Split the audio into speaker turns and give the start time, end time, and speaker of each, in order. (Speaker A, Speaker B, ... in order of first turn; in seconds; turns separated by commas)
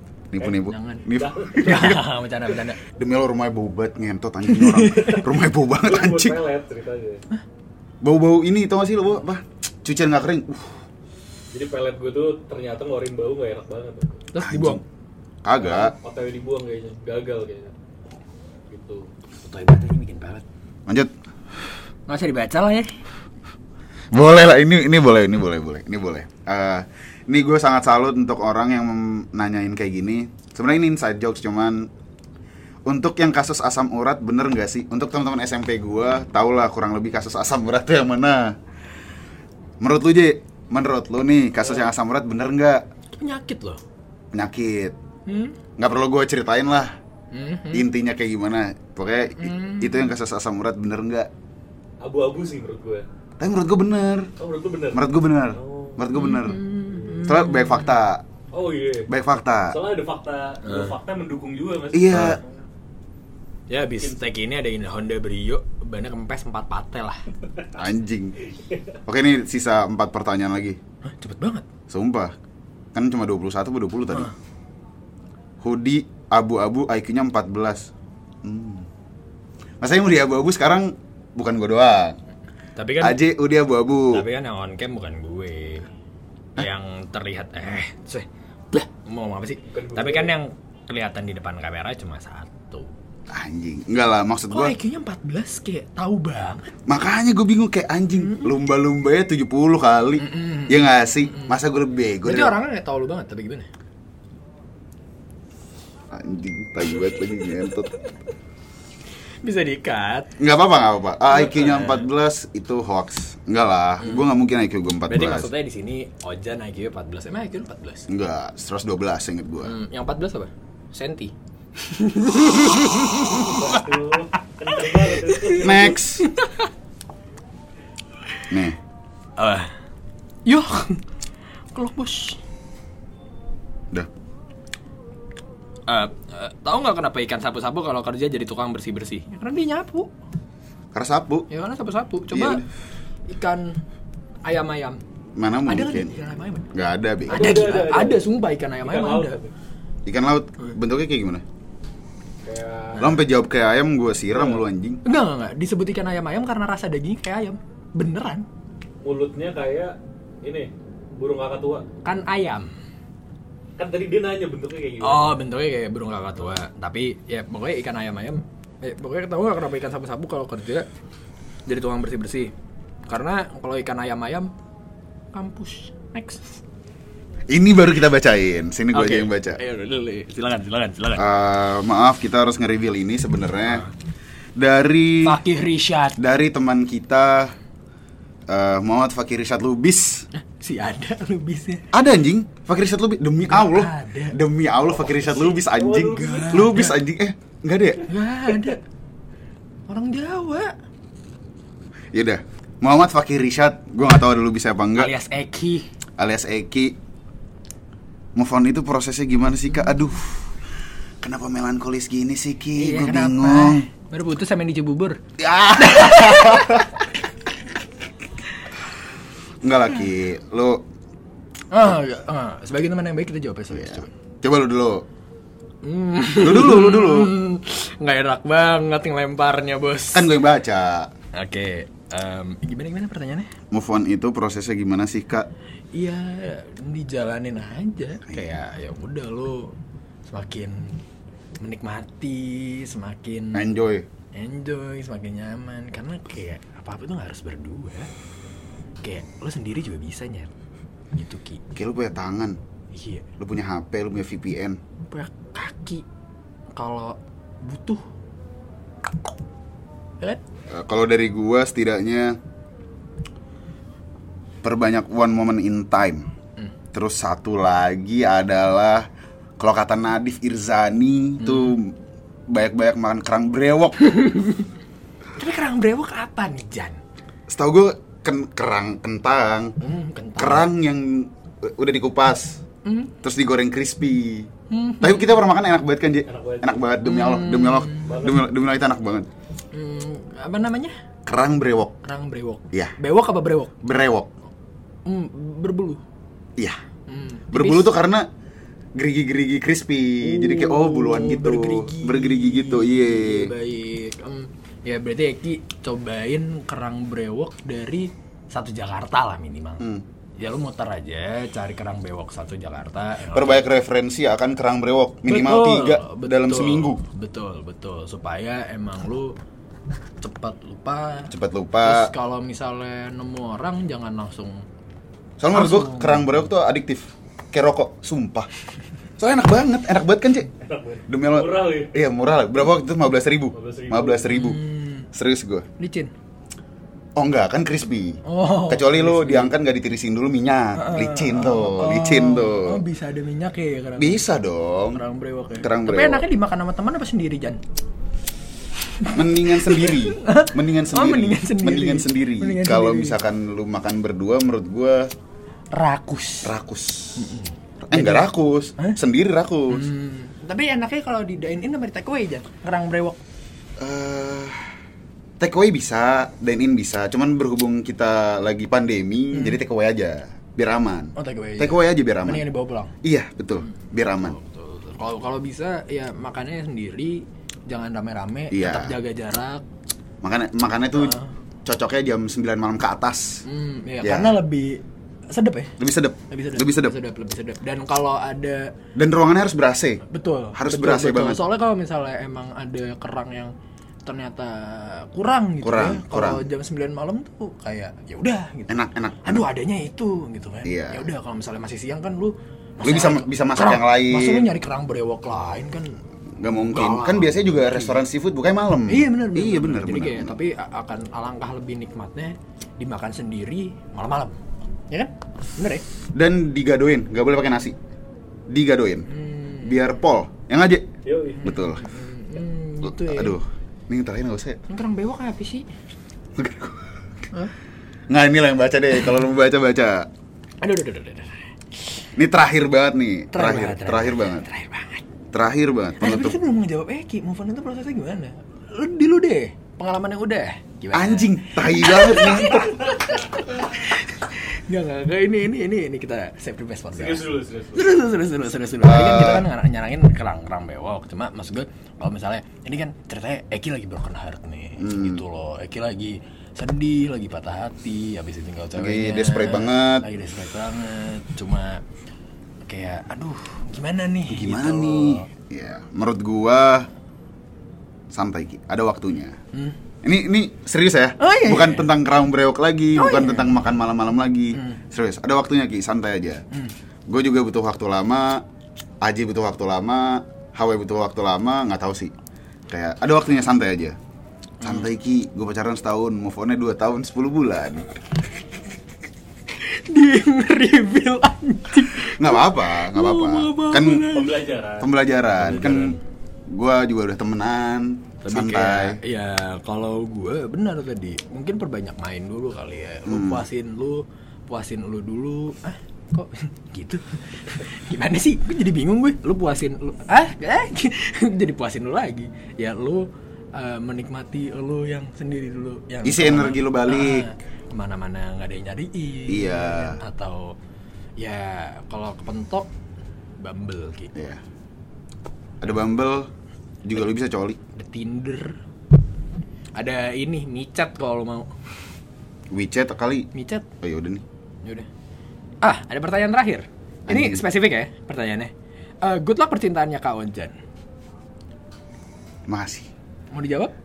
Speaker A: 0.3-2.0, Speaker B: 0.6-2.8, Speaker C: 1.1-2.0, Speaker A: 3.0-6.4, Speaker B: 4.5-5.2, Speaker C: 5.2-7.2, Speaker A: 8.0-10.8, Speaker C: 11.5-14.2, Speaker B: 14.3-14.8, Speaker A: 14.4-14.8, Speaker A: 15.4-15.9, Speaker C: 15.6-17.7, Speaker C: 18.7-19.1, Speaker B: 19.4-20.4, Speaker A: 20.9-21.1, Speaker B: 22.1-22.9, Speaker A: 24.1-31.9, Speaker A: 32.9-38.6, Speaker A: 39.8-42.9, Speaker B: 43.1-43.8, Speaker A: 44.3-45.0, Speaker B: 45.3-45.6, Speaker A: 45.8-47.0, Speaker B: 47.3-47.9, Speaker A: 47.7-51.3, Speaker B: 49.4-50.1, Speaker C: 52.0-53.1, Speaker A: 53.4-54.3, Speaker C: 54.4-56.1, Speaker A: 54.9-56.6, Speaker B: 56.1-58.0, Speaker C: 56.9-57.2, Speaker A: 57.2-58.2, Speaker C: 58.5-59.1, Speaker A: 59.1-59.8, Speaker C: 59.7-62.5, Speaker B: 60.6-60.9, Speaker A: 61.9-62.4, Speaker B: 62.1-62.4, Speaker B: 63.7-67.2, Speaker A: 67.8-68.3, Speaker A: 69.1-70.8, Speaker B: 71.1-71.7, Speaker A: 71.9-72.3, Speaker A: 72.9-74.3, Speaker A: 75.6-77.9, Speaker A: 78.4-78.9, Speaker A: 79.8-82.2, Speaker B: 82.8-83.2, Speaker A: 83.0-84.2, Speaker B: 84.1-85.9, Speaker B: 86.6-92.9, Speaker C: 89.7-90.3, Speaker A: 93.3-94.8, Speaker B: 94.5-96.7, Speaker A: 96.9-102.6, Speaker B: 100.2-101.6, Speaker B: 102.2-103.7, Speaker A: 106.1-107.9, Speaker B: 109.4-110.3, Speaker A: 110.4-115.5, Speaker B: 111.4-112.0, Speaker B: 115.1-118.1, Speaker A: 118.1-119.8, Speaker B: 119.6-123.8, Speaker C: 123.4-126.0, Speaker B: 124.7-126.7, Speaker A: 125.6-126.3, Speaker A: 128.5-128.8, Speaker B: 129.4-129.7, Speaker B: 130.4-131.0, Speaker B: 131.7-132.4, Speaker B: 135.9-140.1, Speaker A: 140.9-141.5, Speaker B: 141.5-142.6, Speaker A: 142.3-142.6, Speaker B: 143.3-143.8, Speaker B: 144.4-145.0, Speaker A: 145.4-146.2, Speaker B: 145.7-146.7, Speaker A: 146.7-147.6, Speaker B: 147.3-149.4, Speaker C: 147.3-148.3, Speaker C: 148.8-149.5, Speaker A: 150.1-151.4, Speaker C: 152.4-153.2, Speaker A: 153.0-155.0, Speaker C: 154.3-154.7, Speaker B: 155.0-158.5, Speaker C: 159.0-161.9, Speaker B: 162.0-162.7, Speaker C: 163.8-165.4, Speaker B: 165.0-170.9, Speaker B: 171.7-172.5, Speaker B: 173.1-174.5, Speaker B: 175.3-176.6, Speaker A: 177.5-179.6, Speaker B: 178.9-181.3, Speaker A: 181.2-183.8, Speaker A: 184.6-185.4, Speaker B: 185.2-186.2, Speaker A: 186.2-187.6, Speaker A: 188.5-190.3, Speaker B: 190.3-191.8, Speaker A: 191.9-198.1, Speaker B: 193.5-194.4, Speaker C: 195.0-196.9, Speaker B: 196.1-197.0, Speaker B: 198.1-198.8, Speaker B: 199.9-200.7, Speaker A: 202.1-205.1, Speaker B: 205.0-205.9, Speaker A: 206.2-207.0, Speaker A: 208.3-210.5, Speaker A: 211.2-213.9, Speaker B: 212.8-215.2, Speaker A: 215.4-216.9, Speaker B: 215.8-217.0, Speaker A: 219.6-220.8, Speaker B: 221.7-224.1, Speaker A: 223.7-225.1, Speaker B: 225.8-230.3, Speaker A: 226.4-227.3, Speaker A: 230.1-231.1, Speaker B: 231.3-233.5, Speaker A: 233.7-235.5, Speaker B: 235.9-239.8, Speaker A: 238.3-238.6, Speaker B: 240.3-241.0, Speaker B: 241.6-243.7, Speaker A: 243.5-244.1, Speaker B: 244.3-248.1, Speaker B: 249.0-250.5, Speaker B: 251.1-251.6, Speaker A: 251.8-252.6, Speaker B: 252.9-253.3, Speaker A: 253.4-254.8, Speaker B: 255.1-256.0, Speaker B: 256.7-258.0, Speaker A: 260.7-262.4, Speaker A: 264.6-266.3, Speaker A: 266.9-269.1, Speaker A: 269.6-272.0, Speaker B: 271.4-271.8, Speaker A: 272.5-274.0, Speaker B: 274.0-274.6, Speaker B: 275.4-277.0, Speaker A: 277.5-279.8, Speaker B: 279.8-280.7, Speaker A: 280.4-282.6, Speaker B: 282.9-283.1, Speaker A: 283.2-284.5, Speaker B: 284.7-285.4, Speaker A: 285.0-289.3, Speaker C: 286.3-286.9, Speaker B: 287.0-288.2, Speaker C: 288.0-288.5, Speaker B: 289.7-290.9, Speaker A: 291.3-292.0, Speaker B: 292.0-293.7, Speaker A: 293.8-294.3, Speaker B: 295.1-296.0, Speaker B: 297.1-297.9, Speaker A: 297.5-298.3, Speaker A: 298.9-303.5, Speaker B: 300.2-309.8, Speaker B: 310.4-313.6, Speaker A: 313.3-317.0, Speaker B: 315.3-319.4, Speaker B: 320.2-324.6, Speaker A: 321.3-322.1, Speaker A: 325.4-328.5, Speaker B: 325.5-326.5, Speaker A: 329.2-330.5, Speaker C: 330.6-331.9, Speaker A: 331.1-335.7, Speaker C: 333.5-334.3, Speaker B: 334.3-335.1, Speaker B: 335.8-336.1, Speaker A: 337.2-342.8, Speaker B: 338.2-339.5, Speaker B: 340.8-344.2, Speaker A: 344.0-345.0, Speaker B: 344.9-347.6, Speaker A: 345.6-346.3, Speaker B: 348.9-353.2, Speaker A: 349.1-355.1, Speaker B: 355.7-356.5, Speaker A: 356.4-357.3, Speaker B: 357.2-359.0, Speaker A: 357.8-359.9, Speaker B: 359.7-363.2, Speaker A: 363.8-364.7, Speaker A: 365.4-372.4, Speaker B: 369.3-369.6, Speaker B: 371.2-372.9, Speaker A: 373.0-374.4, Speaker B: 373.6-379.6, Speaker A: 378.5-379.0, Speaker A: 380.2-383.4, Speaker B: 381.0-381.3, Speaker B: 383.4-385.8, Speaker A: 384.0-384.4, Speaker A: 385.8-386.9, Speaker B: 386.3-388.7, Speaker A: 388.9-390.0, Speaker B: 390.1-393.5, Speaker A: 390.5-391.4, Speaker B: 394.1-406.0, Speaker A: 395.6-396.4, Speaker A: 398.7-399.5, Speaker A: 400.6-401.1, Speaker A: 402.8-404.5, Speaker A: 406.4-410.4, Speaker B: 406.6-408.0, Speaker B: 408.9-414.4, Speaker B: 414.9-415.8, Speaker A: 416.1-417.8, Speaker A: 418.5-419.1, Speaker B: 419.1-419.8, Speaker A: 419.6-420.9, Speaker C: 421.1-421.4, Speaker B: 421.4-423.4, Speaker A: 421.4-421.9, Speaker A: 422.8-424.6, Speaker B: 424.7-425.7, Speaker A: 426.4-426.9, Speaker A: 428.1-430.1, Speaker B: 430.6-431.4, Speaker A: 432.2-434.5, Speaker B: 433.3-435.0, Speaker A: 435.3-436.4, Speaker B: 436.0-461.8, Speaker A: 440.9-442.8, Speaker C: 446.9-447.9, Speaker A: 448.8-449.5, Speaker A: 454.8-455.2, Speaker A: 458.8-460.1, Speaker B: 462.7-465.3, Speaker A: 464.3-466.9, Speaker A: 468.1-469.4, Speaker A: 470.0-476.4, Speaker B: 471.2-471.9, Speaker B: 472.9-473.8, Speaker B: 474.5-474.8, Speaker A: 477.1-478.4, Speaker A: 479.0-482.1, Speaker A: 482.7-484.0, Speaker A: 484.6-488.0, Speaker B: 484.6-484.9, Speaker B: 489.6-494.5, Speaker A: 491.9-494.1, Speaker C: 494.1-494.9, Speaker A: 494.8-496.0, Speaker B: 495.4-496.0, Speaker C: 495.5-495.9, Speaker A: 496.5-499.0, Speaker B: 498.2-520.6, Speaker A: 503.1-503.4, Speaker A: 516.0-517.3, Speaker A: 519.3-520.0, Speaker B: 521.2-522.7, Speaker B: 523.4-524.1, Speaker A: 524.1-524.4, Speaker A: 525.6-526.3, Speaker A: 526.8-527.6, Speaker B: 527.7-528.6, Speaker B: 529.8-531.5, Speaker A: 532.5-533.3, Speaker B: 533.3-533.6, Speaker A: 533.8-534.2, Speaker B: 535.6-538.5, Speaker A: 537.1-537.4, Speaker B: 539.0-540.5, Speaker A: 542.5-542.9, Speaker B: 543.3-543.7